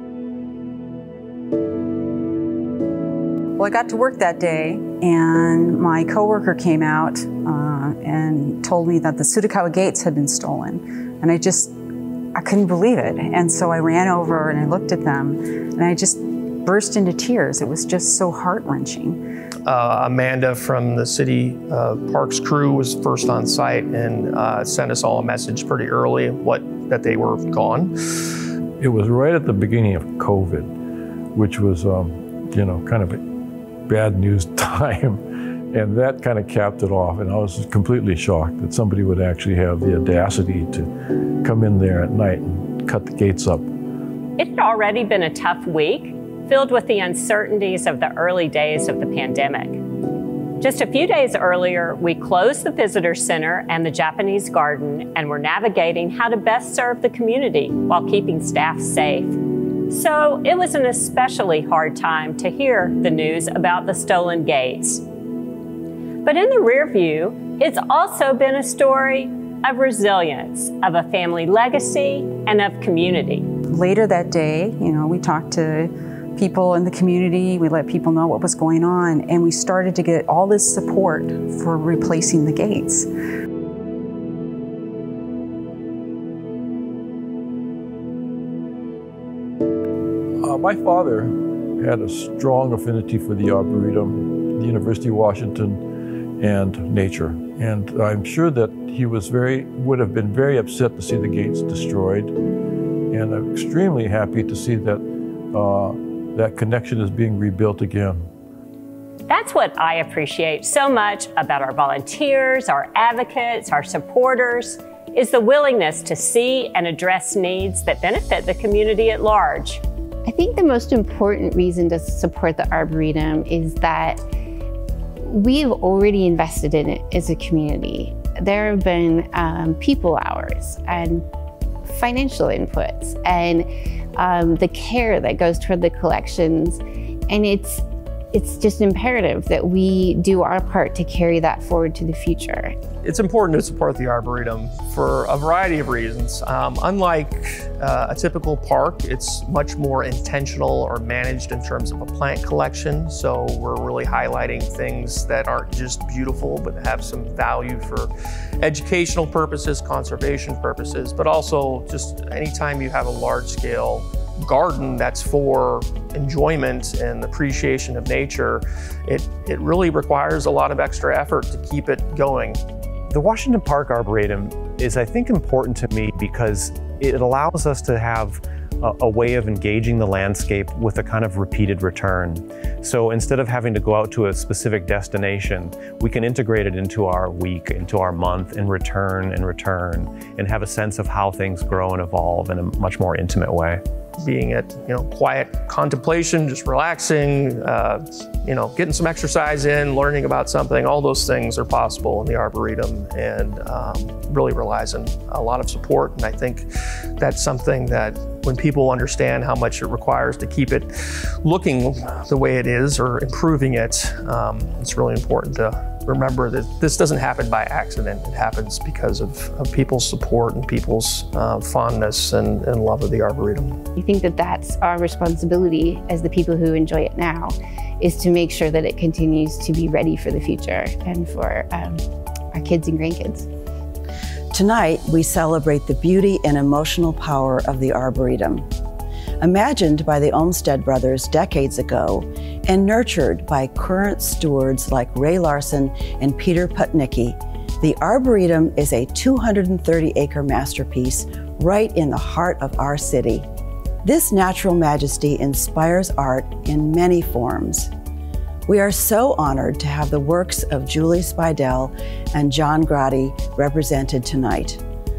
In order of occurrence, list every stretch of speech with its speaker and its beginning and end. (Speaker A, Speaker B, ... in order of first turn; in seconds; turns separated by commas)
Speaker A: 3.5-11.8, Speaker A: 12.3-19.2, Speaker B: 19.6-27.9, Speaker C: 28.8-30.7, Speaker C: 31.3-33.2, Speaker C: 33.9-43.7, Speaker D: 44.4-49.8, Speaker D: 50.6-59.4, Speaker D: 59.9-65.0, Speaker D: 66.2-73.5, Speaker A: 73.7-83.1, Speaker C: 90.4-102.4, Speaker C: 103.1-108.3, Speaker D: 109.3-119.8, Speaker E: 120.2-124.2, Speaker E: 125.2-131.2, Speaker E: 131.8-142.8, Speaker B: 143.0-172.6, Speaker F: 173.1-193.8, Speaker B: 194.2-223.8, Speaker E: 223.9-233.5, Speaker G: 234.5-238.7, Speaker G: 239.4-253.5, Speaker G: 254.0-257.9, Speaker G: 258.7-264.8